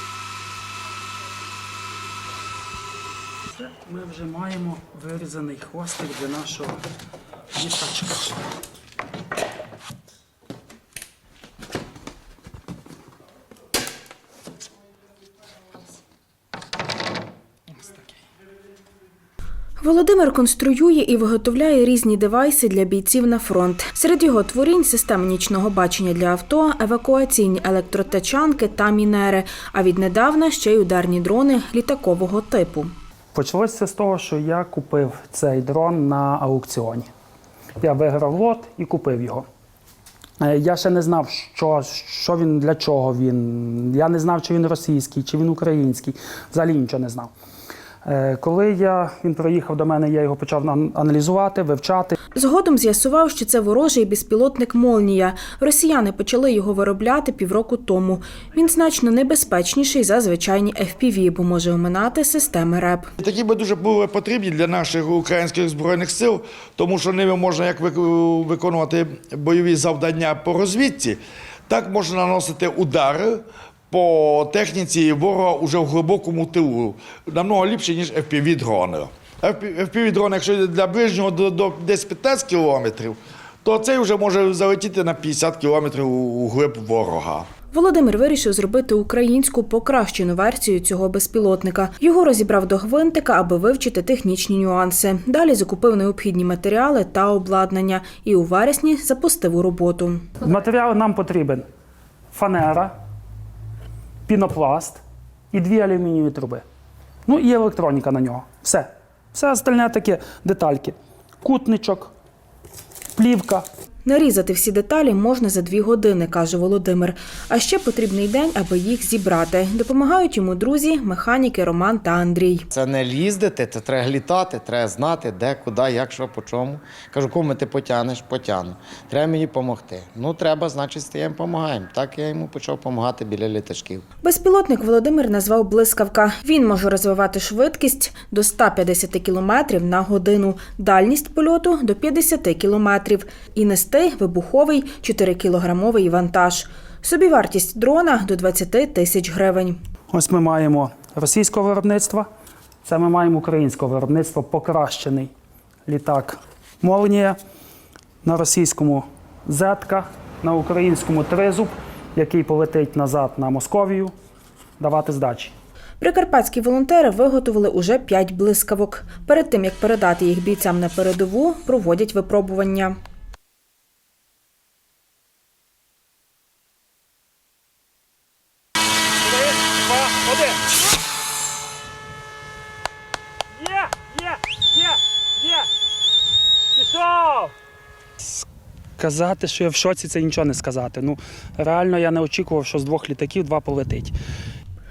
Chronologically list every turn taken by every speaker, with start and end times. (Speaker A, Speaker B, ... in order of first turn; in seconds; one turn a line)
Speaker A: 3.5-6.8
Speaker A: 7.5-8.2
Speaker B: 19.8-32.9
Speaker A: 33.3-37.1
Speaker A: 37.8-39.5
Speaker A: 40.4-47.3
Speaker A: 48.0-52.2
Speaker B: 52.3-63.1
Speaker C: 63.2-87.5
Speaker B: 87.7-100.3
Speaker A: 100.4-101.6
Speaker A: 102.3-102.9
Speaker A: 104.3-105.0
Speaker A: 105.5-106.6
Speaker A: 107.3-112.1
Speaker A: 113.2-113.6
Speaker B: 114.0-122.7
Speaker D: 122.7-134.0
Speaker B: 134.2-149.8
Speaker A: 150.1-152.3
Speaker A: 152.8-155.3
Speaker A: 155.9-157.4
Speaker A: 158.2-164.1
Speaker A: 164.8-165.5
Speaker B: 166.0-172.9
Speaker A: 186.9-187.3
Speaker A: 189.0-194.1